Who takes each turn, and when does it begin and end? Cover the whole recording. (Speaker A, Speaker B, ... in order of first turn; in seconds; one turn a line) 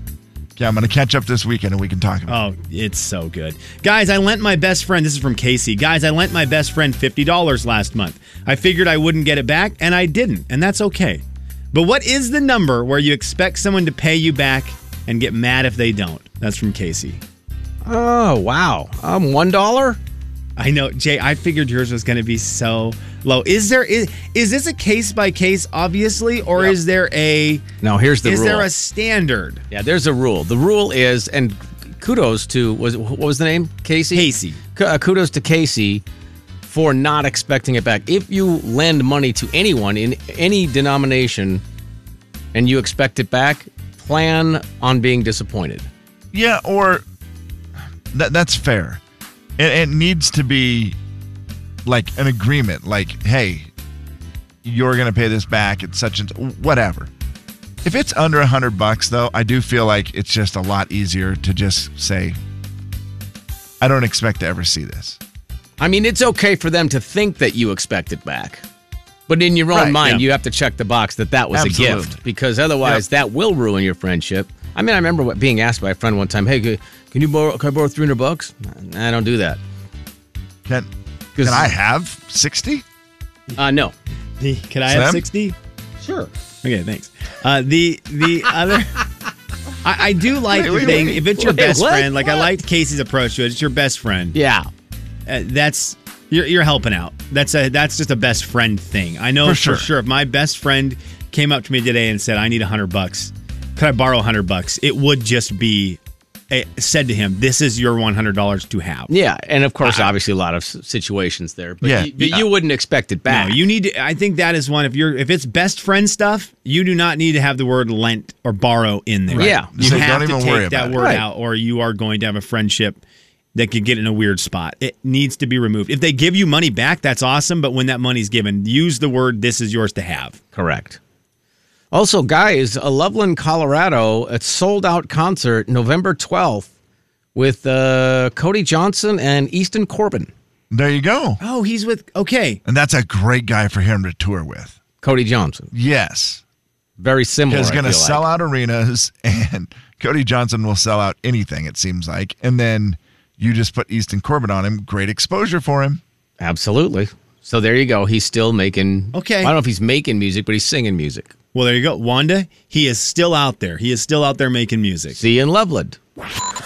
Speaker A: 0.6-2.4
Speaker B: 2.3-17.2
Speaker C: 17.9-20.0
Speaker B: 20.6-27.6
Speaker C: 27.8-28.7
Speaker B: 28.2-29.6
Speaker C: 29.7-36.0
Speaker B: 34.1-34.6
Speaker C: 36.7-41.6
Speaker C: 42.5-45.9
Speaker A: 46.3-47.0
Speaker A: 48.1-49.0
Speaker A: 49.6-51.0
Speaker A: 51.8-53.7
Speaker A: 54.6-57.1
Speaker A: 57.8-62.4
Speaker A: 63.8-65.2
Speaker C: 65.8-68.6
Speaker C: 69.3-79.6
Speaker A: 69.7-70.3
Speaker A: 71.5-72.2
Speaker A: 80.7-82.8
Speaker C: 81.4-81.7
Speaker C: 83.6-83.9
Speaker B: 84.4-85.6
Speaker A: 84.9-85.2
Speaker C: 86.0-86.3
Speaker B: 86.6-89.1
Speaker B: 89.8-94.4
Speaker A: 90.5-91.6
Speaker C: 90.7-92.5
Speaker C: 94.3-94.7
Speaker B: 95.3-109.1
Speaker A: 99.4-99.9
Speaker C: 109.1-113.6
Speaker B: 109.8-110.1
Speaker A: 111.8-112.5
Speaker B: 113.3-123.0
Speaker C: 119.3-120.1
Speaker A: 119.4-121.1
Speaker C: 121.0-121.3
Speaker B: 123.5-130.4
Speaker C: 130.5-131.0
Speaker C: 131.9-136.7
Speaker C: 137.3-140.3
Speaker A: 140.7-141.4
Speaker B: 141.4-142.6
Speaker A: 142.7-144.8
Speaker C: 145.0-145.7
Speaker A: 145.7-146.4
Speaker C: 147.0-148.2
Speaker A: 147.5-156.0
Speaker C: 156.4-161.3
Speaker B: 159.1-159.5
Speaker B: 161.5-165.2
Speaker C: 165.2-166.0